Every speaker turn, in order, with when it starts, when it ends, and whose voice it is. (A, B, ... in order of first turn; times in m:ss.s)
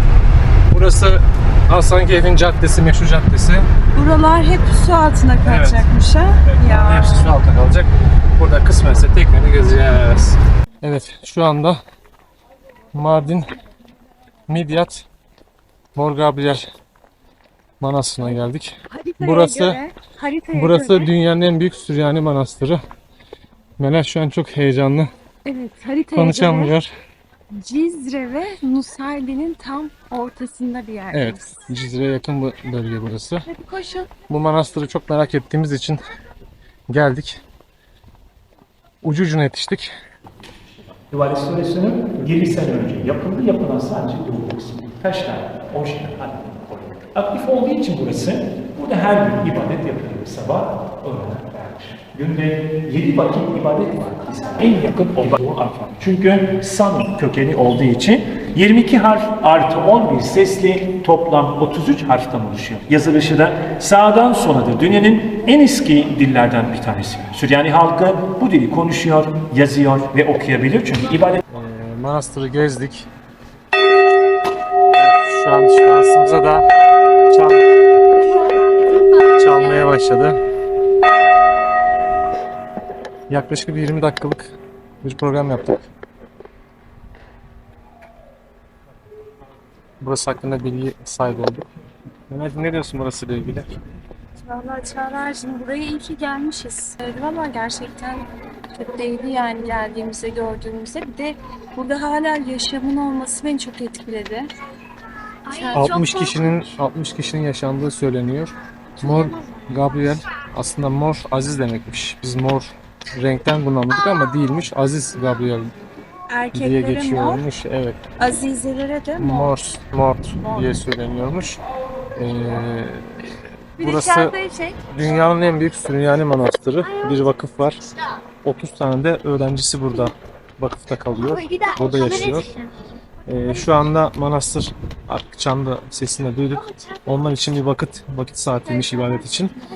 0:00.7-0:03.7 A
0:03.9-0:07.3 B
0:05.4-0:05.9 A
0:06.5-0:11.8 A
0:12.9-0:13.5 A
0:14.5-0:15.0 A
0:16.0-0:16.7 A
0:17.8-0:19.8 A
0:18.9-0:21.1 B
0:20.5-0:22.8 A
0:23.8-0:25.1 A
0:25.4-0:26.7 B
0:26.2-0:26.9 A
0:27.6-0:31.7 B
0:31.1-0:33.5 A
0:33.5-0:34.1 B
0:34.3-0:36.0 A
0:36.9-0:37.4 A
0:39.0-0:39.9 A
0:41.0-1:11.4 C
1:11.5-1:13.1 A
1:14.9-1:16.7 A
1:17.3-1:17.6 A
1:19.4-1:20.4 A
1:23.3-1:25.9 A
1:30.0-1:31.7 A
1:32.3-1:33.8 A
1:34.4-1:44.5 B
1:45.5-1:46.4 B
1:45.7-1:55.7 A
1:56.3-1:57.4 B
1:56.5-1:58.0 A
1:58.2-1:59.6 B
1:59.2-2:01.6 A
2:02.2-2:04.3 A
2:03.8-2:04.8 B
2:04.9-2:07.8 A
2:08.4-2:12.5 A
2:13.3-2:19.6 A